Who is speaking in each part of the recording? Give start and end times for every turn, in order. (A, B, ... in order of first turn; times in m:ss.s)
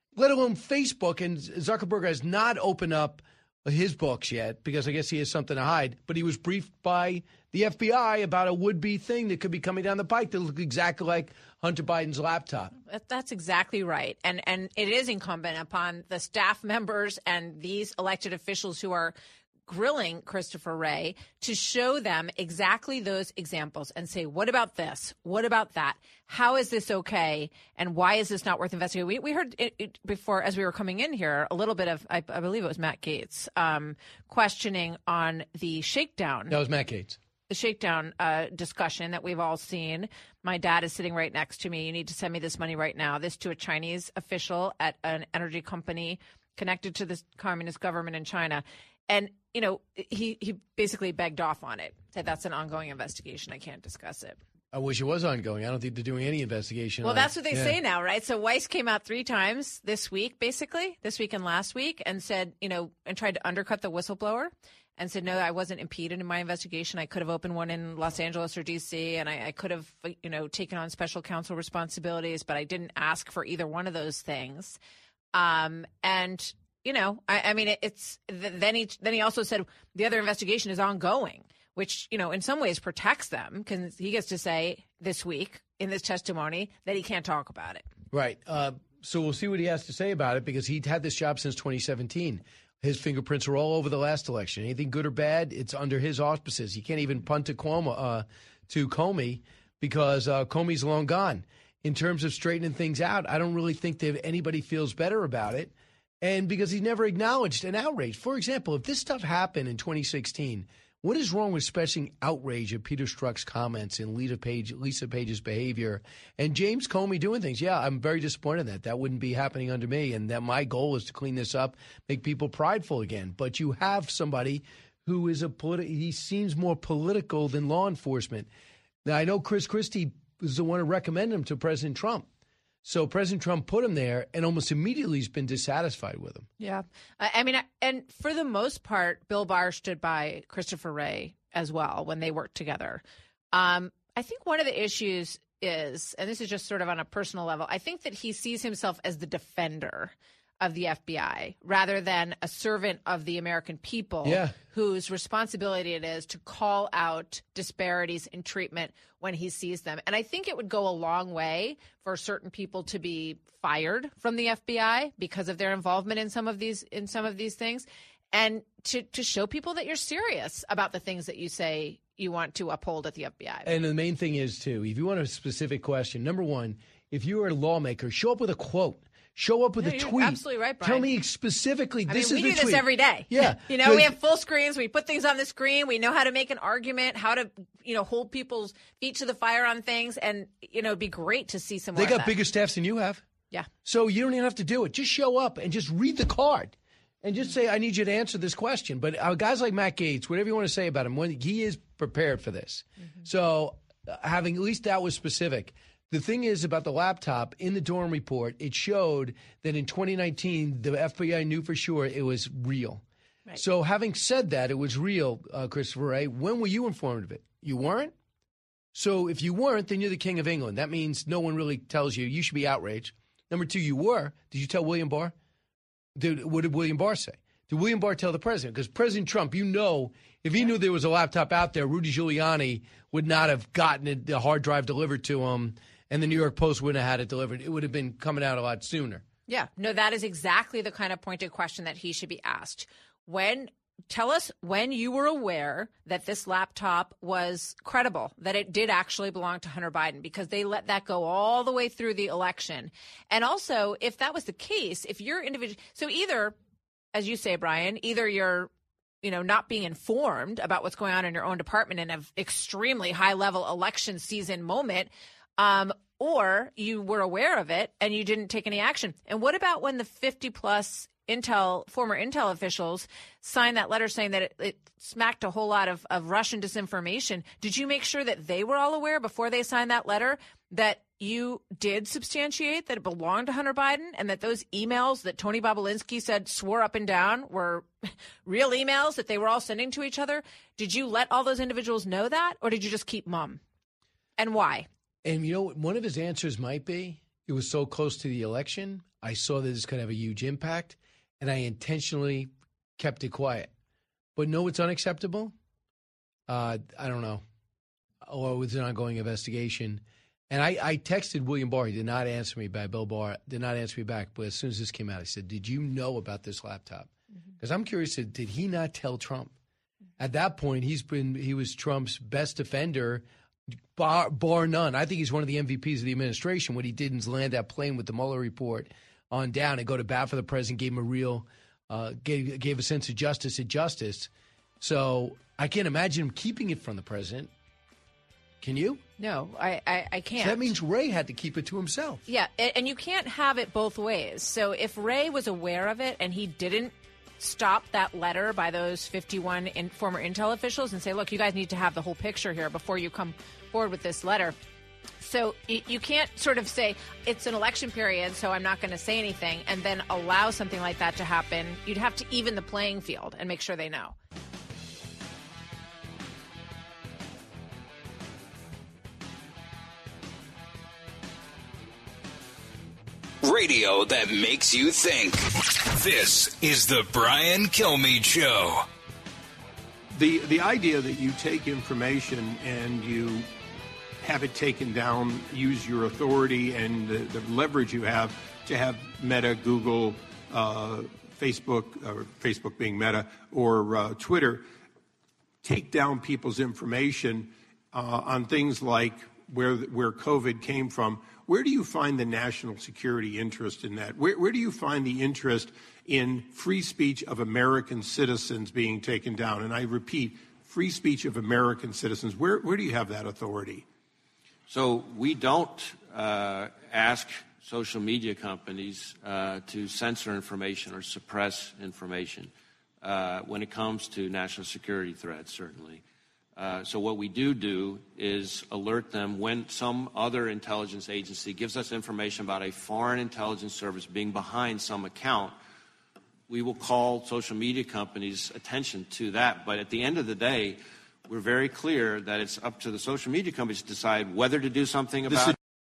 0:00.2-0:12.7 A
0:12.9-0:19.2 B
0:19.7-0:36.5 B
0:36.5-0:37.2 A
0:37.5-0:54.4 B
0:54.7-0:57.8 A
0:57.0-1:14.8 B
1:15.3-1:27.8 B
1:28.1-2:08.5 A
2:09.0-2:12.3 A
2:12.8-2:16.5 A
2:16.6-2:23.0 B
2:23.5-2:53.7 B
2:34.2-2:34.6 A
2:53.6-3:04.1 A
2:59.8-3:01.1 B
3:02.1-3:12.3 B
3:12.0-3:13.2 A
3:13.8-3:33.0 A
3:33.6-3:38.1 A
3:39.0-3:45.3 A
3:46.2-3:59.2 A
3:59.5-4:16.6 B
4:17.2-4:18.7 B
4:19.2-4:47.9 B
4:48.5-4:53.6 B
4:54.4-4:54.9 B
4:55.2-5:03.7 A
5:04.4-5:05.5 A
5:06.5-5:07.4 A
5:08.2-5:19.5 A
5:20.2-5:23.2 A
5:24.0-5:34.3 A
5:34.8-5:37.5 A
5:38.6-5:39.0 A
5:39.2-5:40.7 B
5:40.4-5:42.2 A
5:42.3-5:54.6 B
5:55.2-6:04.2 B
6:13.4-6:18.8 C
6:20.2-6:23.5 D
6:24.2-6:34.7 D
6:35.6-6:53.9 D
6:54.7-7:06.0 E
7:06.6-7:15.6 E
7:16.5-7:25.6 E